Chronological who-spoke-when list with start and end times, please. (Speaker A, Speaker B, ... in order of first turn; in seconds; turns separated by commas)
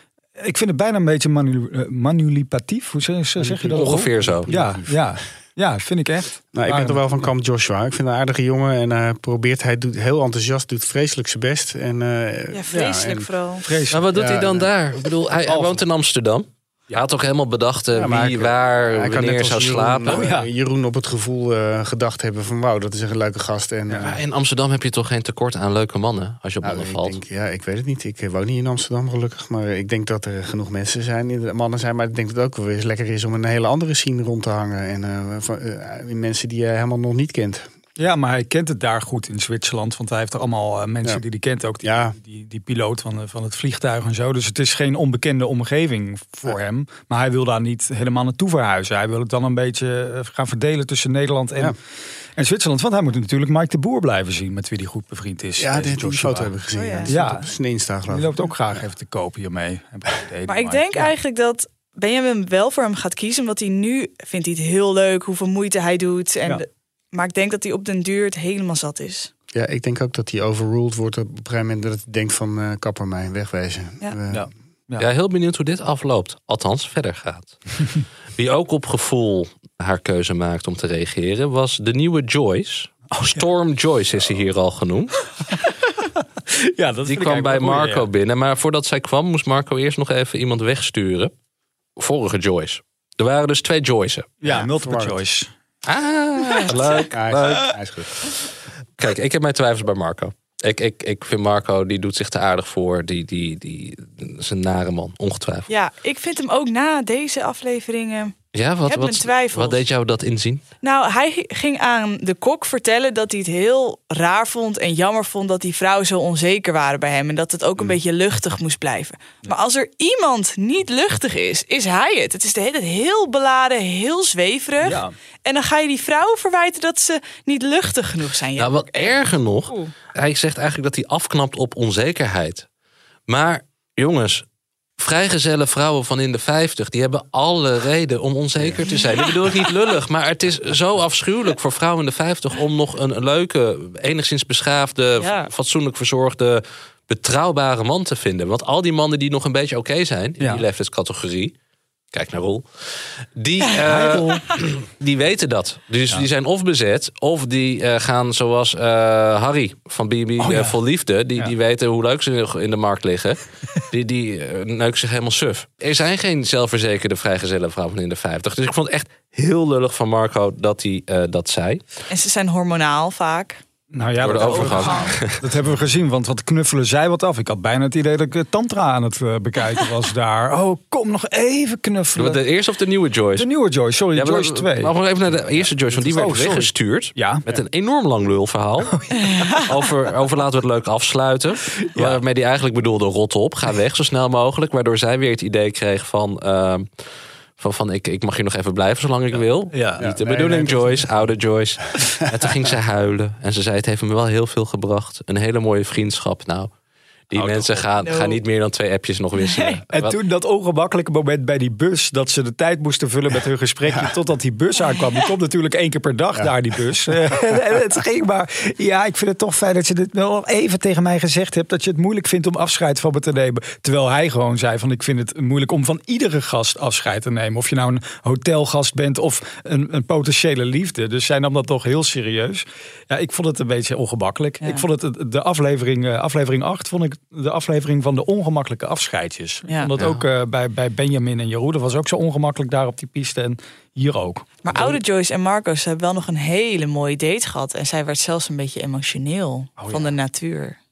Speaker A: 0.4-7.3, Speaker B: 3.4-5.2, Speaker C: 3.8-4.5, Speaker B: 6.5-13.3, Speaker D: 12.5-13.7, Speaker A: 13.6-14.0, Speaker C: 13.9-20.2, Speaker B: 14.1-14.7, Speaker A: 15.5-15.8, Speaker B: 17.9-24.2, Speaker A: 20.1-20.5, Speaker C: 24.0-27.2, Speaker B: 26.6-37.7, Speaker A: 38.0-51.7, Speaker B: 41.8-42.2, Speaker A: 52.4-56.5, Speaker B: 55.6-58.5, Speaker D: 56.8-57.1, Speaker A: 57.1-57.5, Speaker A: 58.1-61.1, Speaker D: 60.5-69.3, Speaker B: 69.5-74.5, Speaker A: 74.3-75.1, Speaker C: 75.0-77.8, Speaker C: 78.4-85.2, Speaker A: 83.2-83.4, Speaker A: 85.6-88.1, Speaker C: 87.1-91.3, Speaker C: 92.0-94.4, Speaker A: 94.4-95.5, Speaker B: 94.5-95.2, Speaker C: 95.8-105.7, Speaker B: 97.1-98.1, Speaker D: 105.7-108.3, Speaker C: 108.5-110.6, Speaker D: 108.9-109.8, Speaker D: 110.8-129.9, Speaker A: 124.8-125.1, Speaker C: 128.6-132.7, Speaker C: 133.3-134.4, Speaker C: 135.0-151.5, Speaker D: 138.9-139.3, Speaker D: 145.2-145.5, Speaker C: 152.1-171.8, Speaker A: 153.8-154.4, Speaker A: 160.4-160.8, Speaker D: 172.1-173.6, Speaker A: 173.9-182.4, Speaker C: 174.2-175.4, Speaker D: 174.4-175.1, Speaker C: 182.2-183.5, Speaker A: 183.4-187.4, Speaker C: 184.1-196.9, Speaker D: 189.1-189.7, Speaker A: 191.8-192.2, Speaker C: 197.6-206.7, Speaker A: 199.7-200.1, Speaker B: 200.0-201.2, Speaker B: 202.0-202.5, Speaker C: 207.3-210.2, Speaker A: 207.3-207.9, Speaker D: 208.0-208.4, Speaker D: 209.4-209.8, Speaker A: 209.9-245.0, Speaker B: 213.9-214.1, Speaker D: 214.9-215.2, Speaker C: 240.0-240.3, Speaker D: 244.6-250.8, Speaker A: 249.8-250.1